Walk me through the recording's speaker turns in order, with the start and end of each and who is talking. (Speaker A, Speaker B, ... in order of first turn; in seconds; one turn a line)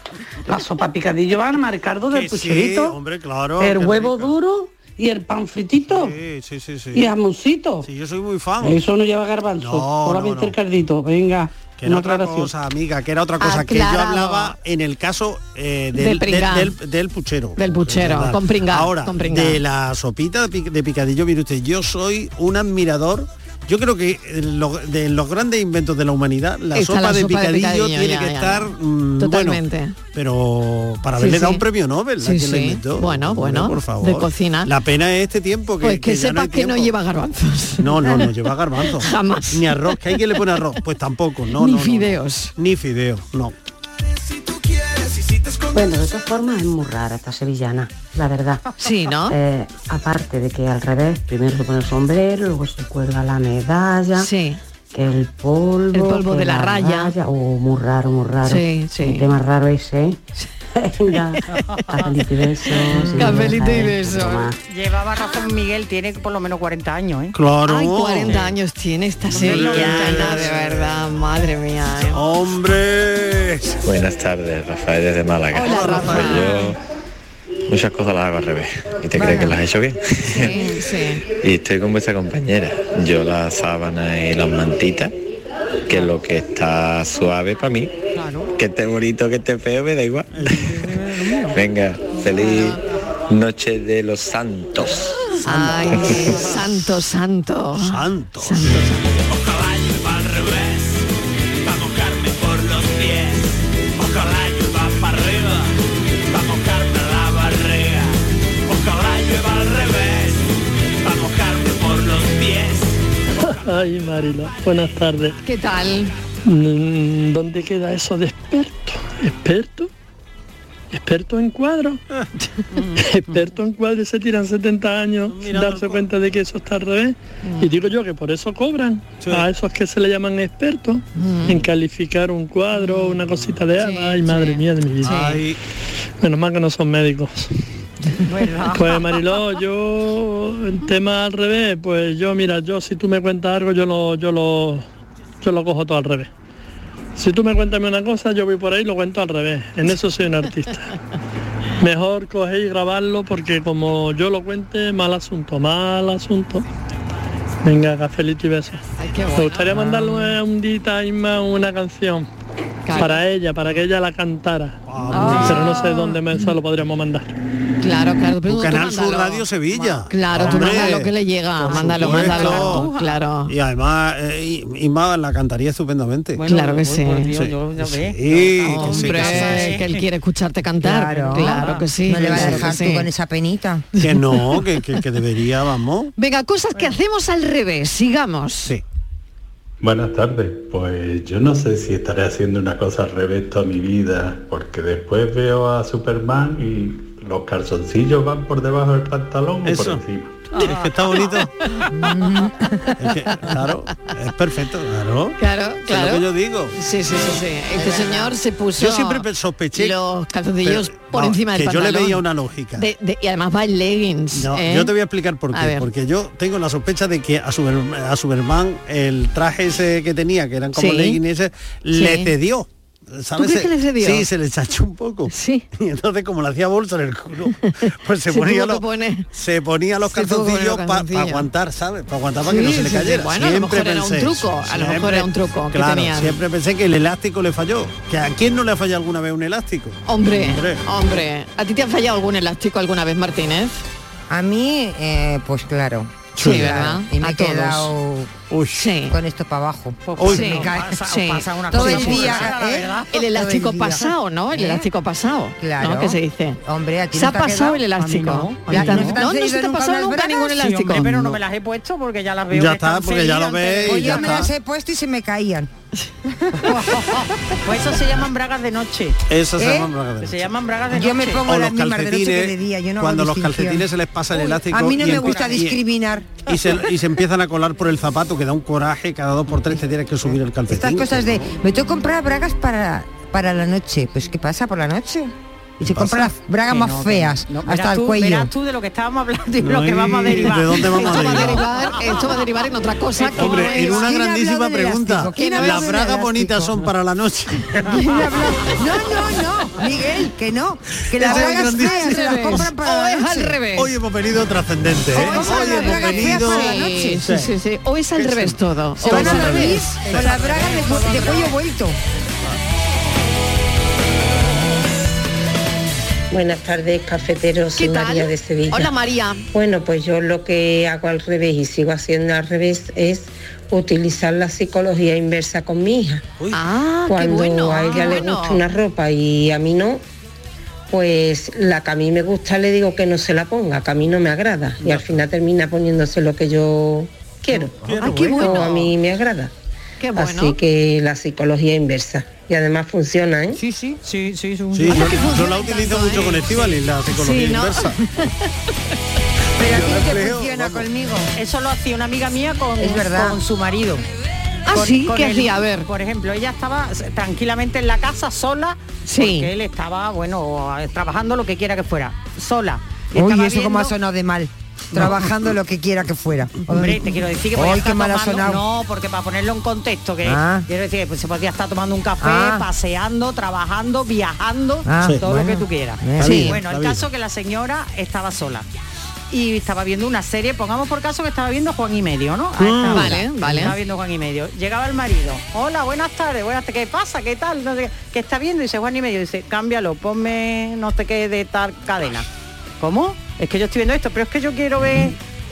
Speaker A: 0.5-3.0
Speaker B: 2.1-4.3
Speaker A: 3.6-6.2
Speaker B: 5.8-7.1
Speaker A: 6.9-7.9
Speaker B: 7.8-8.8
Speaker A: 8.6-12.5
Speaker B: 9.6-10.6
Speaker B: 11.7-29.6
Speaker C: 13.4-14.5
Speaker C: 16.0-16.7
Speaker C: 17.6-19.6
Speaker C: 26.7-30.0
Speaker B: 30.1-37.0
Speaker C: 31.2-31.6
Speaker C: 32.2-34.7
Speaker C: 35.8-38.3
Speaker B: 37.8-43.5
Speaker C: 38.8-40.0
Speaker C: 41.6-42.5
Speaker D: 45.7-48.6
Speaker C: 48.8-49.4
Speaker D: 49.3-54.3
Speaker C: 54.1-54.6
Speaker D: 54.9-64.6
Speaker C: 55.9-57.1
Speaker C: 58.5-59.2
Speaker E: 61.5-62.1
Speaker C: 62.8-64.5
Speaker E: 64.7-67.3
Speaker B: 67.3-68.4
Speaker C: 67.7-72.2
Speaker B: 69.3-71.0
Speaker E: 69.3-70.5
Speaker B: 72.1-73.7
Speaker F: 73.8-76.8
Speaker C: 75.5-76.7
Speaker B: 75.5-76.5
Speaker F: 77.7-80.6
Speaker C: 79.2-79.5
Speaker E: 79.2-79.5
Speaker C: 80.3-81.2
Speaker F: 81.4-85.1
Speaker F: 85.9-88.0
Speaker E: 88.1-88.5
Speaker F: 88.5-90.4
Speaker B: 90.3-90.7
Speaker E: 90.7-91.5
Speaker F: 91.5-95.2
Speaker C: 92.3-92.8
Speaker C: 95.4-99.1
Speaker B: 95.4-96.4
Speaker F: 95.9-96.2
Speaker B: 97.8-98.9
Speaker G: 113.4-115.4
Speaker C: 115.4-116.1
Speaker G: 116.5-119.9
Speaker G: 120.9-122.0
Speaker E: 122.8-123.0
Speaker G: 123.0-135.3
Speaker B: 125.3-126.1
Speaker C: 127.4-127.7
Speaker B: 129.2-129.4
Speaker C: 131.2-131.6
Speaker C: 132.8-133.2
Speaker B: 133.3-133.6
Speaker C: 133.8-135.4
Speaker B: 135.0-135.6
Speaker G: 136.2-137.5
Speaker E: 138.2-139.3
Speaker G: 138.7-144.8
Speaker G: 145.4-146.3
Speaker G: 147.2-150.9
Speaker G: 151.8-156.6
Speaker G: 157.6-162.3
Speaker C: 159.0-160.4
Speaker C: 162.8-163.2
Speaker G: 162.9-164.8
Speaker B: 164.8-165.7
Speaker C: 165.1-166.5
Speaker G: 165.3-167.4
Speaker C: 167.8-173.5
Speaker B: 168.4-172.9
Speaker E: 170.5-170.7
Speaker E: 171.7-173.1
Speaker B: 173.4-176.4
Speaker E: 176.4-180.0
Speaker C: 176.4-177.3
Speaker B: 177.3-179.8
Speaker C: 178.6-183.1
Speaker H: 180.8-183.8
Speaker E: 181.1-181.9
Speaker B: 182.3-182.6
Speaker C: 184.0-184.9
Speaker B: 184.0-186.1
Speaker C: 186.2-188.7
Speaker I: 189.8-200.5
Speaker B: 199.6-200.0
Speaker E: 200.5-201.4
Speaker B: 200.5-201.5
Speaker H: 201.9-202.8
Speaker B: 203.0-206.7
Speaker C: 205.4-212.2
Speaker B: 208.8-210.0
Speaker B: 210.6-212.9
Speaker C: 212.8-214.9
Speaker B: 214.3-240.8
Speaker C: 215.5-215.9
Speaker C: 220.7-221.2
Speaker C: 221.9-222.3
Speaker C: 223.4-224.2
Speaker C: 225.3-225.6
Speaker C: 227.8-229.3
Speaker C: 230.1-231.5
Speaker C: 232.4-236.4
Speaker C: 240.1-243.8
Speaker H: 244.3-248.4
Speaker C: 246.3-247.9
Speaker B: 246.4-246.9
Speaker B: 248.5-248.9
Speaker C: 248.7-249.2
Speaker H: 249.1-251.0
Speaker E: 250.1-253.1
Speaker B: 250.2-250.7
Speaker C: 250.2-252.5
Speaker H: 251.7-254.9
Speaker C: 253.1-256.6
Speaker H: 255.6-257.9
Speaker C: 257.1-261.1
Speaker E: 258.0-259.2
Speaker H: 258.6-260.8
Speaker E: 260.5-264.5
Speaker B: 261.0-261.4
Speaker B: 262.5-264.5
Speaker H: 263.8-265.7
Speaker C: 264.1-264.4
Speaker H: 266.2-267.2
Speaker E: 266.6-269.2
Speaker B: 269.3-270.5
Speaker H: 269.6-269.9
Speaker E: 270.2-271.5
Speaker H: 270.9-276.5
Speaker B: 271.4-275.8
Speaker E: 275.1-275.6
Speaker B: 276.4-281.5
Speaker H: 280.7-288.5
Speaker B: 285.9-286.3
Speaker E: 286.6-292.4
Speaker B: 289.6-291.6
Speaker C: 290.8-294.1
Speaker H: 293.2-296.9
Speaker B: 293.3-298.2
Speaker C: 295.3-295.9
Speaker H: 297.9-303.6
Speaker B: 301.1-302.7
Speaker C: 301.2-303.9
Speaker B: 303.7-307.5
Speaker H: 305.1-307.2
Speaker C: 305.1-310.0
Speaker B: 308.1-310.4
Speaker H: 309.0-312.0
Speaker E: 310.1-311.5
Speaker J: 316.3-318.9
Speaker C: 317.8-319.4
Speaker J: 319.5-326.2
Speaker C: 326.5-328.6
Speaker J: 327.1-330.0
Speaker J: 330.9-339.5
Speaker B: 334.8-335.2
Speaker B: 337.8-338.2
Speaker C: 337.9-338.9
Speaker H: 338.0-338.3
Speaker C: 340.0-340.6
Speaker J: 340.1-343.6
Speaker H: 343.6-343.9
Speaker E: 343.9-345.4
Speaker B: 344.7-348.0
Speaker C: 344.9-348.5
Speaker H: 349.6-351.3
Speaker B: 349.6-350.9
Speaker E: 351.3-354.0
Speaker H: 352.8-353.4
Speaker C: 354.7-355.9
Speaker E: 354.7-363.9
Speaker C: 359.1-359.5
Speaker H: 363.1-368.6
Speaker E: 366.7-378.6
Speaker H: 370.2-370.7
Speaker H: 372.2-372.6
Speaker H: 374.9-376.6
Speaker B: 375.0-375.3
Speaker B: 376.1-377.1
Speaker C: 376.2-376.6
Speaker E: 379.3-392.2
Speaker B: 382.6-383.7
Speaker C: 382.9-383.8
Speaker E: 392.8-395.1